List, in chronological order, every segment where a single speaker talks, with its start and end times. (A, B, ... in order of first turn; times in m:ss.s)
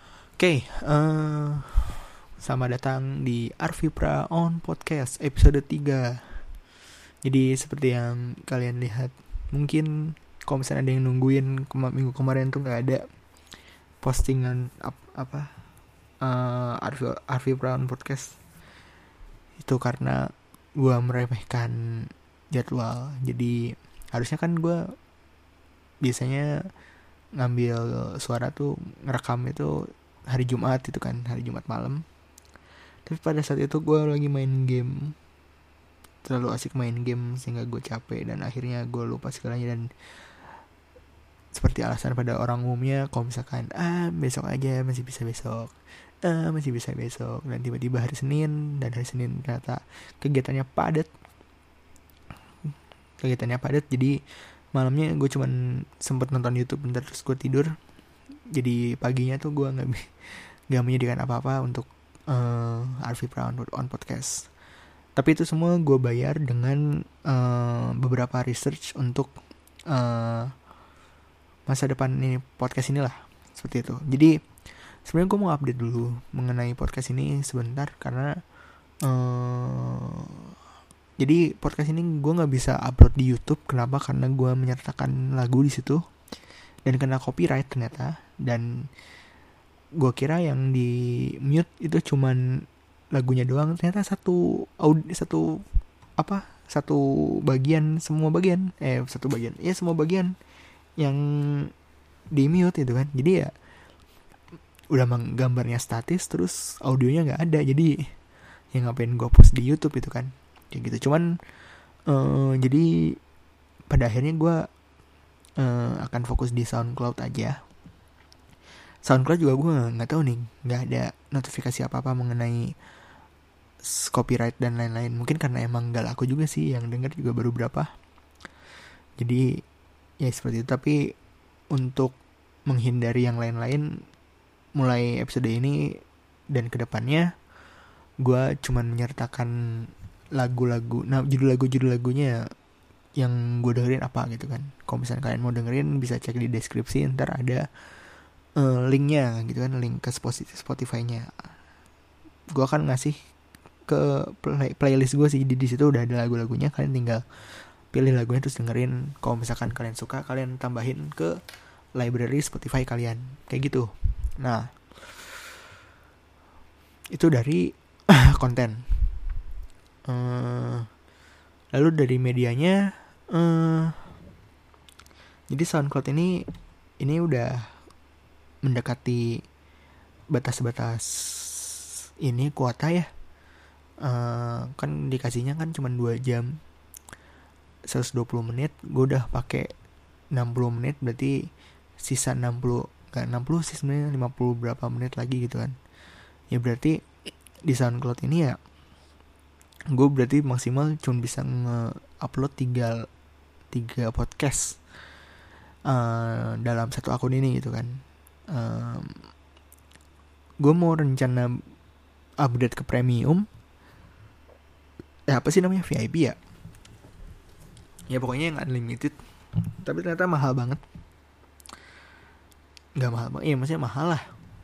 0:00.4-0:06.5 A
0:07.2-0:13.0 A
0:14.0-0:15.5 A
0:16.2-0:18.4 A
0:19.6-0:24.8 A
0:26.0-0:26.5 A
0:27.4-0:32.0 A
0:33.0-0:35.1 A
0:36.2-0:39.9 A
0:41.5-0:45.7 A
0:46.2-0:51.1 A
0:53.2-0:54.2 A
0:54.7-0:57.7 A
0:58.5-1:04.5 A
1:05.2-1:09.3 A
1:09.9-1:10.5 A
1:11.7-1:18.3 A
1:19.0-1:20.4 A
1:21.2-1:26.0 A
1:26.8-1:28.9 A
1:30.0-1:35.6 A
1:36.2-1:40.3 A
1:41.0-1:41.7 A
1:42.3-1:43.5 A
1:44.9-1:47.9 A
1:48.7-1:51.2 A
1:52.1-1:53.2 A
1:53.9-1:54.6 A
1:55.6-1:57.6 A
1:59.0-2:02.7 A
2:03.8-2:07.9 A
2:09.2-2:09.6 A
2:10.2-2:11.0 A
2:11.7-2:12.2 A
2:12.7-2:13.9 A
2:14.8-2:16.0 A
2:16.5-2:17.3 A
2:18.2-2:22.4 A
2:23.2-2:27.6 A
2:28.6-2:31.3 A
2:32.5-2:33.2 A
2:33.9-2:41.4 A
2:42.0-2:45.4 A
2:47.1-2:48.9 A
2:50.1-2:50.9 A
2:51.7-2:52.8 A
2:53.3-2:54.1 A
2:55.5-2:56.4 A
2:57.0-2:57.7 A
2:58.6-2:59.4 A
3:00.3-3:03.1 A
3:04.0-3:06.6 A
3:07.9-3:09.7 A
3:10.3-3:11.4 A
3:12.0-3:15.7 A
3:16.5-3:17.0 A
3:17.6-3:18.6 A
3:19.9-3:23.0 A
3:23.7-3:24.8 A
3:25.9-3:28.0 A
3:28.5-3:29.2 A
3:30.6-3:31.5 A
3:32.4-3:33.4 A
3:35.3-3:36.4 A
3:38.1-3:39.2 A
3:39.7-3:40.8 A
3:43.0-3:44.2 A